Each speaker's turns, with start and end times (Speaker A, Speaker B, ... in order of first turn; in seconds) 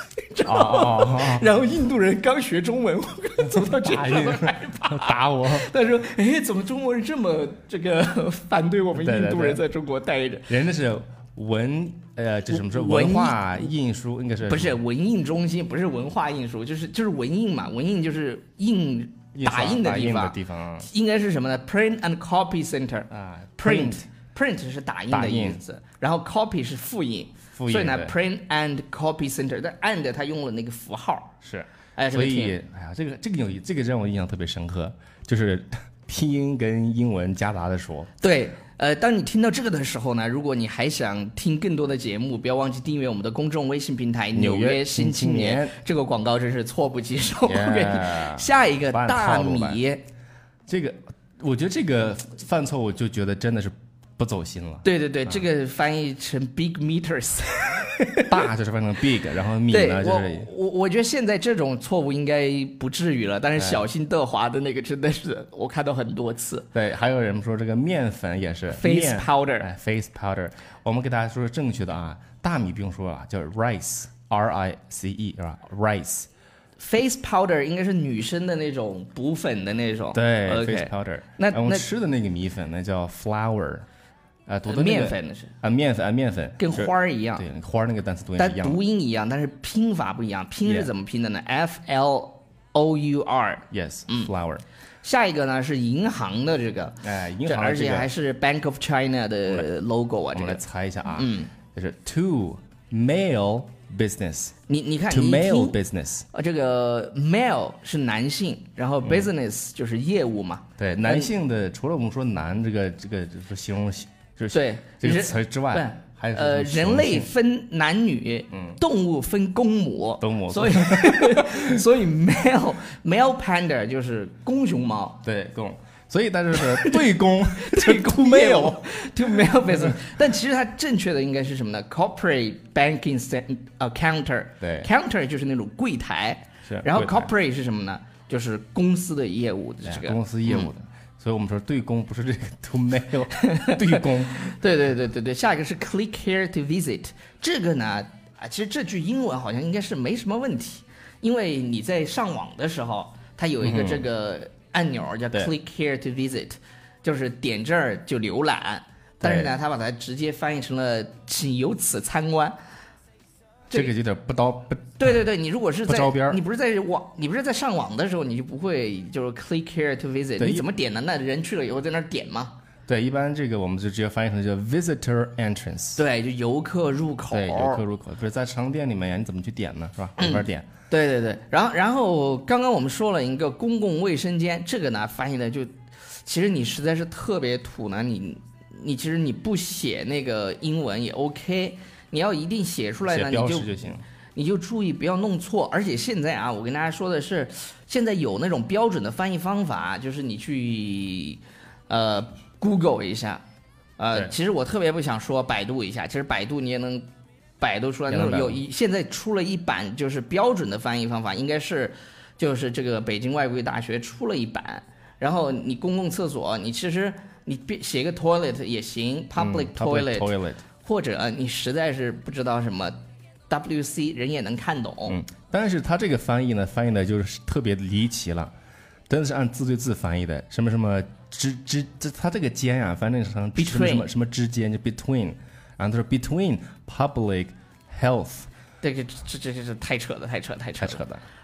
Speaker A: 0.3-10.5, 12.5-13.4, 14.5-31.3, 32.0-32.6, 38.2-50.0, 54.8-58.5, 59.7-66.7, 68.7-69.7, 76.8-81.9, 84.7-85.5, 86.6-87.5, 88.4-94.3, 95.0-101.5, 104.7-105.8, 106.3-111.3, 114.5-125.2, 126.6-140.7, 143.4-162.6, 165.0-172.5, 176.0-177.8, 180.2-193.8, 194.3-203.4, 204.0-207.1, 207.6-220.3, 220.8-223.0, 223.5-225.2, 233.6-234.1, 238.8-241.0
Speaker B: 0.5-1.5, 3.6-5.7, 8.9-9.6, 10.5-14.8, 19.4-20.9, 23.1-24.1, 25.1-25.6, 27.6-28.1, 31.4-38.1, 44.3-45.8, 47.5-49.8, 50.7-55.4, 58.3-60.5, 63.6-63.8, 66.7-76.3, 80.1-83.9, 84.5-88.8, 90.7-90.9, 93.7-94.6, 97.0-98.1, 100.3-104.5, 105.1-106.3, 109.0-109.3, 110.8-117.3, 118.5-118.8, 120.2-121.8, 125.2-129.9, 134.6-134.9, 136.7-137.3, 139.8-144.6, 153.6-154.1, 159.2-159.5, 163.7-165.0, 165.9-166.4, 170.4-170.7, 172.9-176.0, 177.3-180.7, 193.1-194.0, 208.1-208.6, 219.4-220.6, 225.1-228.5, 229.1-238.5, 240.8-241.2